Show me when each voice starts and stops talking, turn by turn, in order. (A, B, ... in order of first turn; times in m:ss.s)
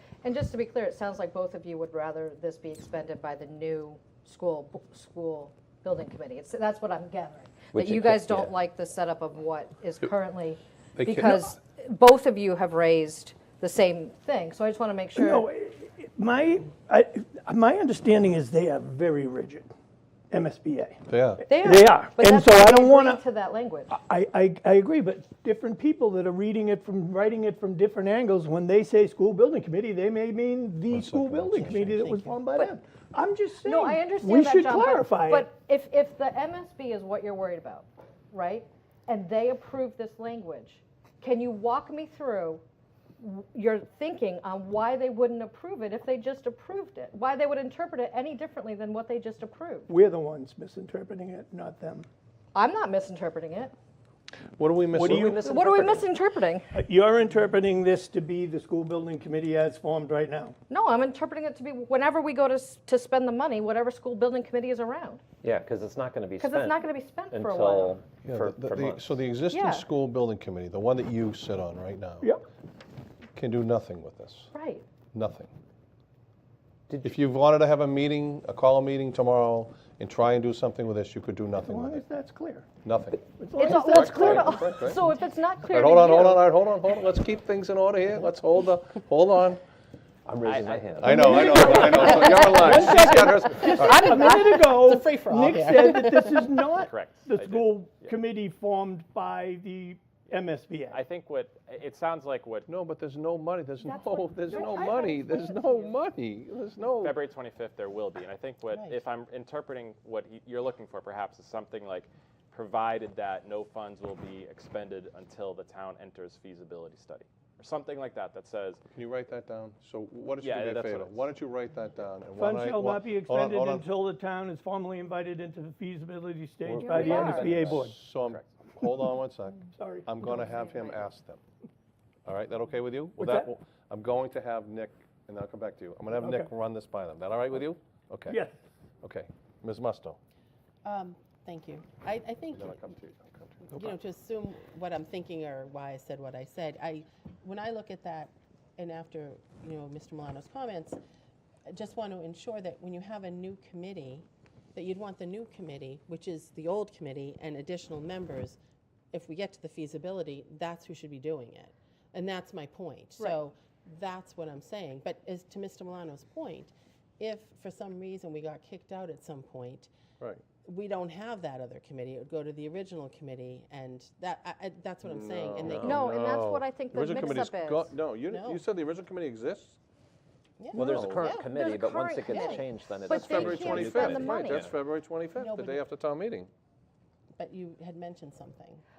0:00.2-0:15.5 A
0:07.7-0:08.5 B
0:11.0-0:11.5 C
0:15.1-0:19.7 D
0:20.3-0:23.2 D
0:21.1-0:21.4 C
0:21.4-0:24.0 A
0:23.9-0:35.5 D
0:30.9-0:32.2 C
0:33.6-0:42.6 A
0:43.2-0:49.9 A
0:49.9-0:52.1 D
0:52.5-0:53.7 A
0:54.6-0:55.5 C
0:54.9-0:56.1 B
0:55.4-0:56.7 A
0:56.7-1:00.6 D
1:00.7-1:05.2 A
1:05.4-1:09.2 B
1:06.4-1:08.0 A
1:08.2-1:12.3 C
1:09.5-1:09.8 A
1:13.4-1:14.5 C
1:14.5-1:14.8 A
1:15.1-1:15.5 C
1:17.0-1:22.0 C
1:21.6-1:22.6 D
1:22.8-1:25.1 C
1:23.2-1:24.4 D
1:23.6-1:26.5 A
1:25.6-1:29.6 C
1:30.2-1:32.2 B
1:30.4-1:32.7 E
1:31.0-1:34.2 C
1:31.1-1:41.0 D
1:33.2-1:36.5 F
1:36.8-1:38.1 E
1:40.9-1:42.7 E
1:42.7-1:47.2 C
1:43.8-1:45.9 A
1:44.6-1:44.9 D
1:47.0-1:58.8 E
1:48.7-1:49.0 F
1:58.9-2:03.9 C
2:00.4-2:01.3 E
2:02.4-2:08.0 D
2:06.6-2:11.4 C
2:06.8-2:07.5 A
2:07.1-2:08.5 E
2:09.7-2:10.5 D
2:12.2-2:18.4 C
2:13.2-2:13.5 D
2:16.1-2:16.5 D
2:18.3-2:18.5 D
2:19.0-2:20.2 C
2:20.8-2:22.8 F
2:22.5-2:24.0 C
2:23.7-2:31.0 F
2:31.7-2:38.6 F
2:39.1-2:49.9 F
2:50.6-2:56.0 F
2:55.0-2:59.8 C
2:55.6-2:56.0 B
2:55.9-2:58.0 A
2:58.2-2:58.6 F
3:00.6-3:01.5 F
3:00.7-3:01.2 C
3:00.7-3:04.8 B
3:01.4-3:04.7 A
3:03.1-3:06.5 C
3:05.3-3:05.8 F
3:07.3-3:08.8 F